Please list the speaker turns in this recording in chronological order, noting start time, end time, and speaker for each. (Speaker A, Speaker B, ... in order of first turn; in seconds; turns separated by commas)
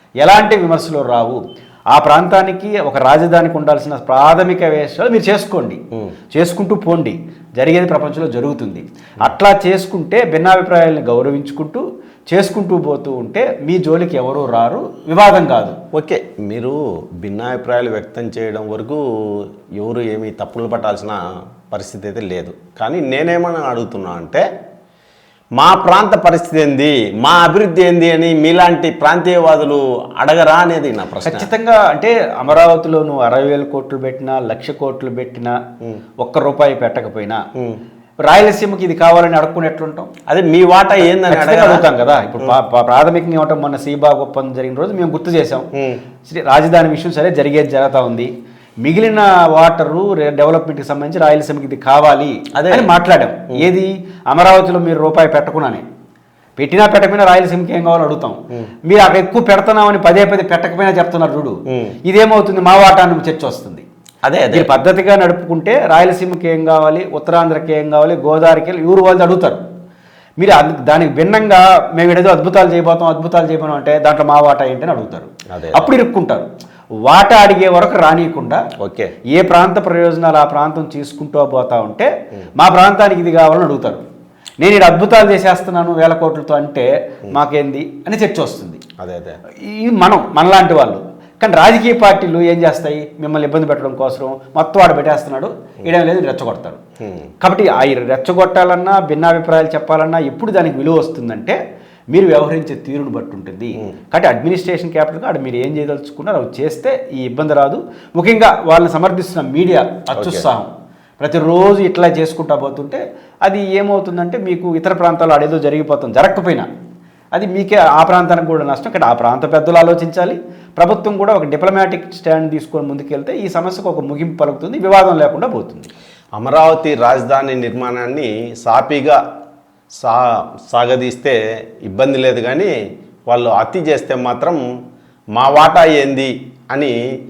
Speaker A: 0.2-15.8, Speaker B: 15.9-24.4, Speaker B: 25.6-31.5, Speaker A: 31.2-35.5, Speaker A: 36.2-37.4, Speaker A: 38.2-40.1, Speaker B: 40.3-41.9, Speaker A: 41.2-45.7, Speaker A: 46.2-55.8, Speaker B: 52.5-52.9, Speaker A: 56.6-63.9, Speaker B: 64.2-64.7, Speaker A: 64.5-69.6, Speaker A: 70.4-76.5, Speaker B: 75.5-75.9, Speaker A: 77.0-78.6, Speaker B: 78.8-79.1, Speaker A: 79.3-84.0, Speaker A: 84.6-88.8, Speaker B: 89.0-89.4, Speaker A: 89.6-96.8, Speaker B: 97.0-97.3, Speaker A: 97.4-101.6, Speaker A: 102.1-110.7, Speaker B: 110.1-110.4, Speaker A: 111.2-116.7, Speaker A: 117.3-125.9, Speaker B: 126.4-129.2, Speaker B: 130.0-132.7, Speaker B: 133.3-134.6, Speaker B: 135.3-137.0